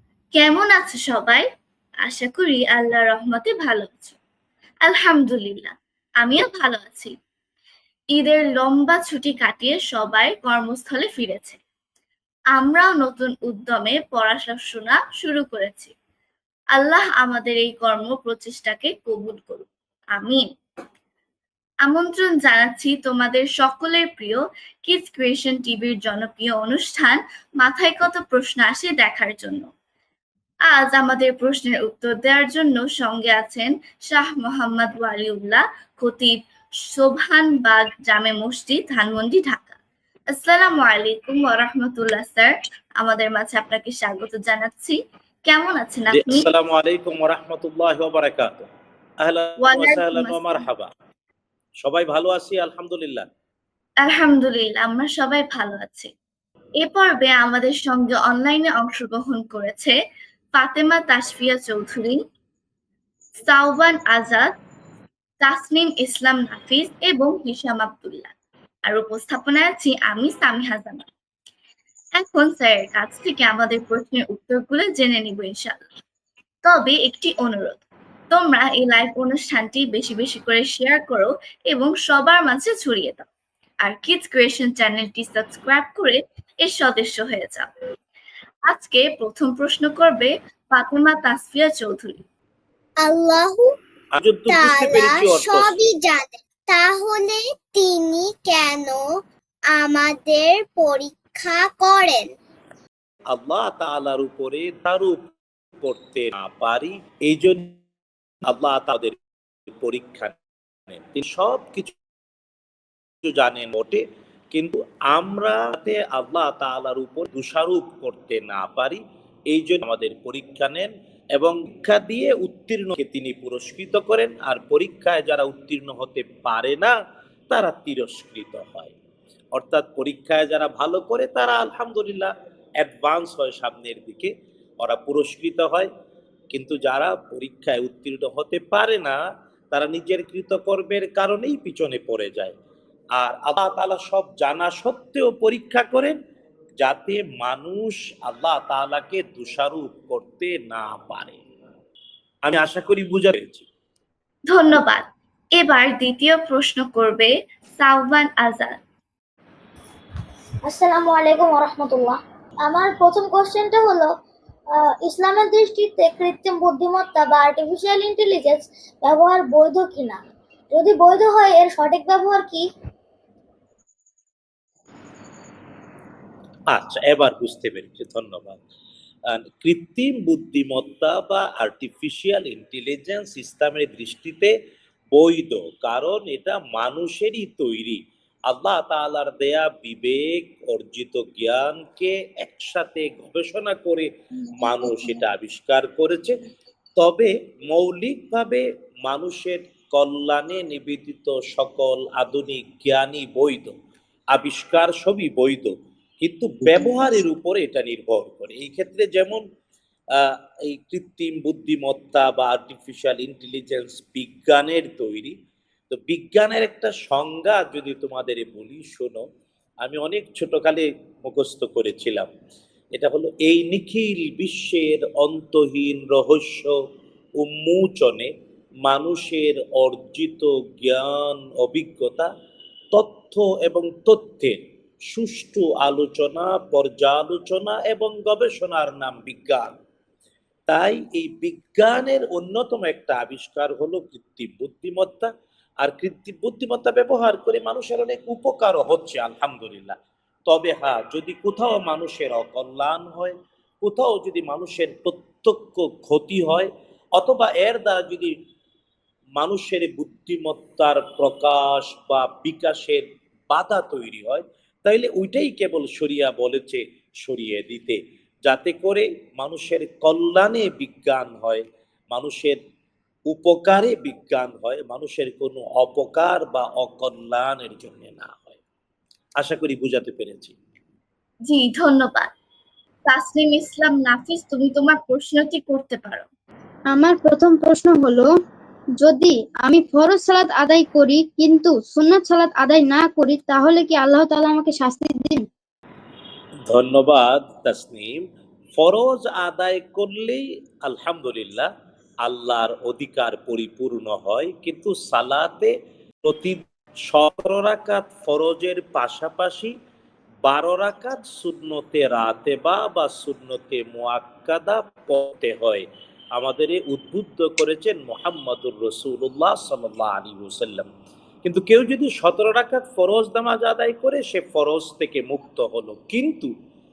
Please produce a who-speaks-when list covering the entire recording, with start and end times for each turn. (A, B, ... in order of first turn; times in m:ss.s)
0:00.3-0:01.4 A
0:02.0-0:04.2 A
0:04.8-0:07.1 A
0:08.1-0:11.6 A
0:12.6-0:15.9 A
0:16.7-0:20.4 A
0:21.8-0:29.7 A
0:30.7-0:36.4 A
0:36.9-0:39.8 A
0:40.3-0:46.5 A
0:46.1-0:48.7 B
0:49.2-0:50.9 B
0:49.6-0:50.6 A
0:51.8-0:53.2 B
0:54.0-0:56.1 A
0:56.8-0:59.9 A
1:00.6-1:02.2 A
1:03.4-1:04.5 A
1:05.4-1:08.3 A
1:08.8-1:11.0 A
1:12.2-1:15.8 A
1:16.6-1:23.3 A
1:23.8-1:27.7 A
1:28.7-1:32.2 A
1:33.0-1:33.6 C
1:34.1-1:35.9 B
1:34.5-1:39.0 C
1:39.8-1:42.2 C
1:43.3-1:45.2 B
1:45.8-1:47.7 B
1:48.5-1:49.2 B
1:49.7-1:50.3 B
1:50.9-1:51.9 B
1:53.2-2:06.9 B
2:07.5-2:08.9 B
2:09.5-2:15.9 B
2:16.5-2:19.2 B
2:19.7-2:22.5 B
2:23.2-2:26.2 B
2:26.8-2:31.4 B
2:32.4-2:33.6 B
2:34.5-2:35.0 A
2:35.6-2:38.8 A
2:40.6-2:44.1 D
2:44.7-2:50.2 D
2:50.7-2:52.6 D
2:56.7-2:58.6 B
2:59.3-3:04.5 B
3:05.1-3:14.1 B
3:14.6-3:16.3 B
3:17.0-3:23.7 B
3:24.3-3:29.4 B
3:30.2-3:35.3 B
3:35.9-3:39.2 B
3:39.8-3:42.3 B
3:42.9-3:46.8 B
3:47.4-3:48.3 B
3:48.8-3:52.3 B
3:52.9-3:59.7 B
4:00.7-4:05.3 B
4:05.8-4:10.0 B
4:10.5-4:18.3 B
4:19.4-4:32.6 B
4:33.3-4:38.6 B
4:39.4-4:40.6 B
4:41.5-4:42.3 A
4:43.1-4:46.3 A
4:46.9-4:48.3 E
4:49.0-4:55.5 E
4:56.7-4:58.2 B
4:58.8-5:01.7 B
5:02.2-5:05.7 B
5:06.2-5:09.7 B
5:10.4-5:20.9 B
5:21.4-5:26.5 B